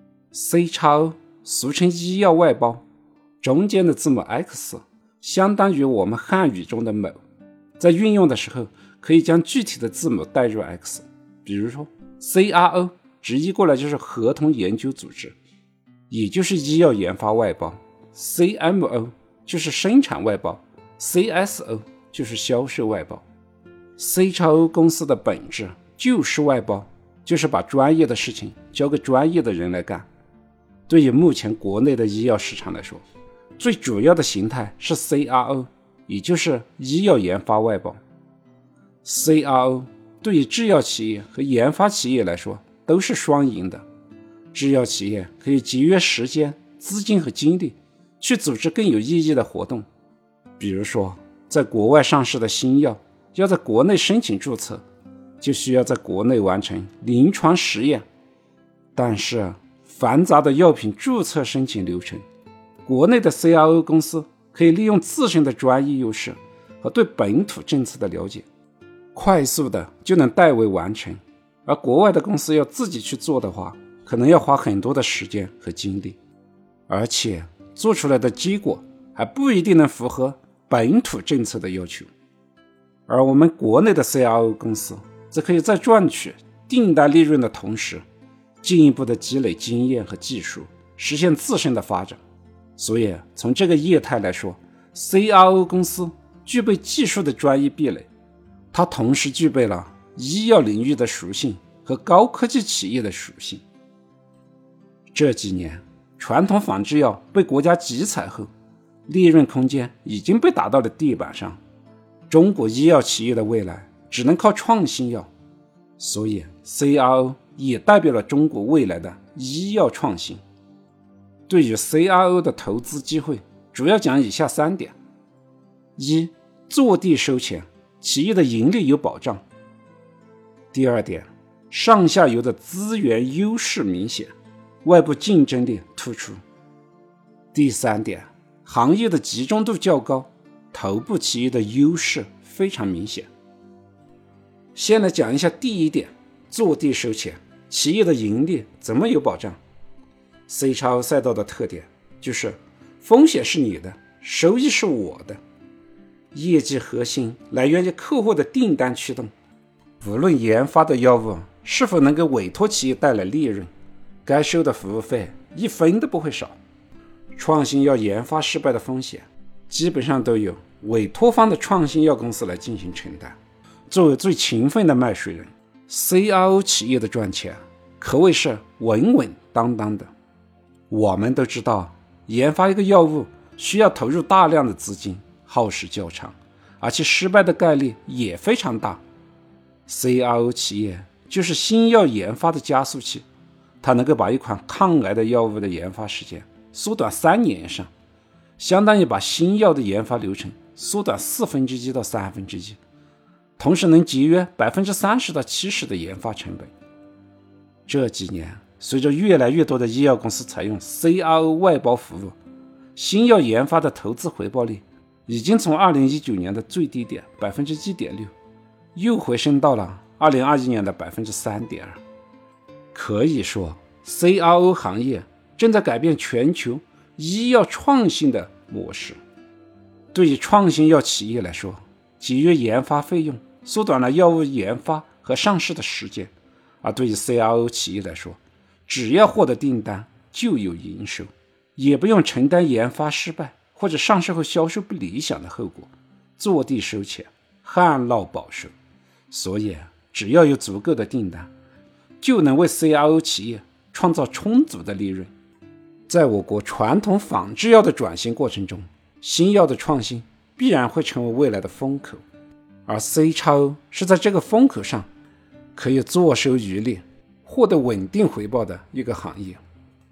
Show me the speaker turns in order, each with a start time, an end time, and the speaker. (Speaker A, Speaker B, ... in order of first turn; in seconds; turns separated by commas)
Speaker A: 0.3-2.8, Speaker A: 3.4-7.2, Speaker A: 7.8-15.4, Speaker A: 16.1-23.2, Speaker A: 24.0-30.1, Speaker A: 30.9-33.0, Speaker A: 33.6-38.0, Speaker A: 39.0-43.8, Speaker A: 44.5-49.9, Speaker A: 50.6-54.8, Speaker A: 55.4-58.0, Speaker A: 59.0-62.2, Speaker A: 62.9-68.5, Speaker A: 69.1-76.2, Speaker A: 76.9-82.1, Speaker A: 83.1-88.0, Speaker A: 88.6-92.2, Speaker A: 92.8-98.1, Speaker A: 98.7-103.6, Speaker A: 105.1-108.5, Speaker A: 109.1-111.6, Speaker A: 112.3-115.3, Speaker A: 116.0-120.4, Speaker A: 121.5-124.9, Speaker A: 126.0-129.4, Speaker A: 130.7-134.3, Speaker A: 134.8-136.4, Speaker A: 137.5-143.3, Speaker A: 144.8-149.6, Speaker A: 150.5-155.4, Speaker A: 156.3-159.3, Speaker A: 160.0-163.7, Speaker A: 164.2-166.6, Speaker A: 167.3-173.4, Speaker A: 173.9-180.1, Speaker A: 180.9-189.0, Speaker A: 189.9-193.2, Speaker A: 193.8-197.9, Speaker A: 198.6-202.8, Speaker A: 203.6-206.7, Speaker A: 207.9-212.4, Speaker A: 212.9-218.3, Speaker A: 218.9-222.0, Speaker A: 222.9-229.2, Speaker A: 230.1-236.3, Speaker A: 236.8-248.7, Speaker A: 249.3-251.5, Speaker A: 252.2-255.3, Speaker A: 256.1-262.2, Speaker A: 262.9-265.1, Speaker A: 265.8-269.6